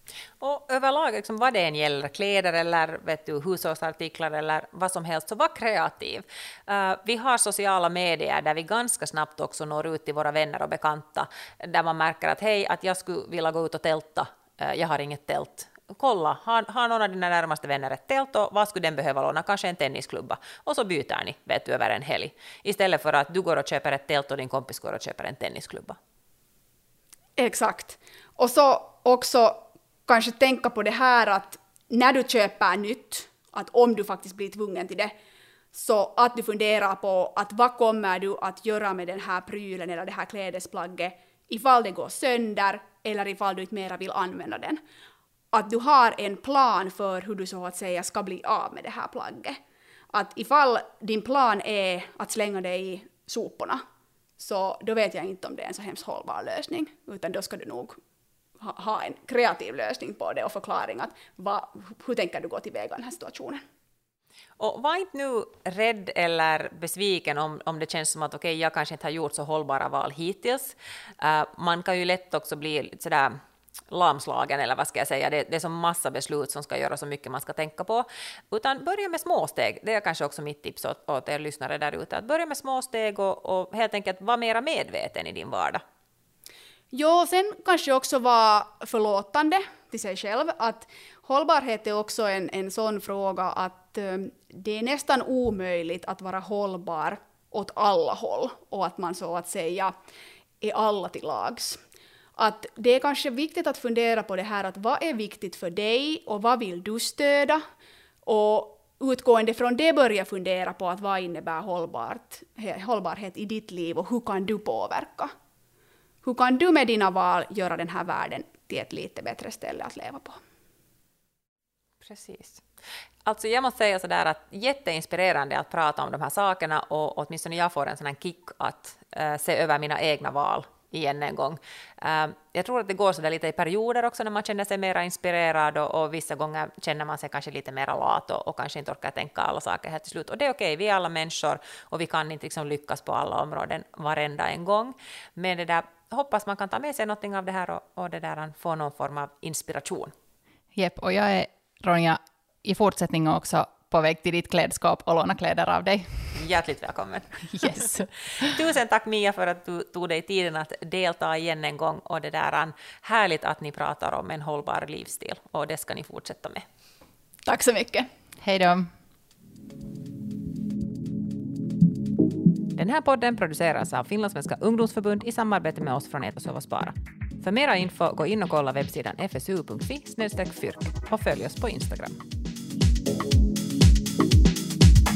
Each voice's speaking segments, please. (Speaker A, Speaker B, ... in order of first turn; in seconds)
Speaker A: 0.4-26.0, 64.6-73.3, 73.9-85.8, 122.0-122.6, 123.2-150.1, 156.3-166.6, 172.8-182.2
Speaker B: 27.4-35.1, 35.7-44.8, 45.5-49.6, 50.1-53.8, 54.4-58.0, 58.6-63.6, 86.9-99.9, 100.6-101.8, 102.4-107.6, 108.2-115.3, 116.2-120.4, 167.4-168.1
Speaker C: 150.8-156.3, 157.6-158.0, 168.4-168.9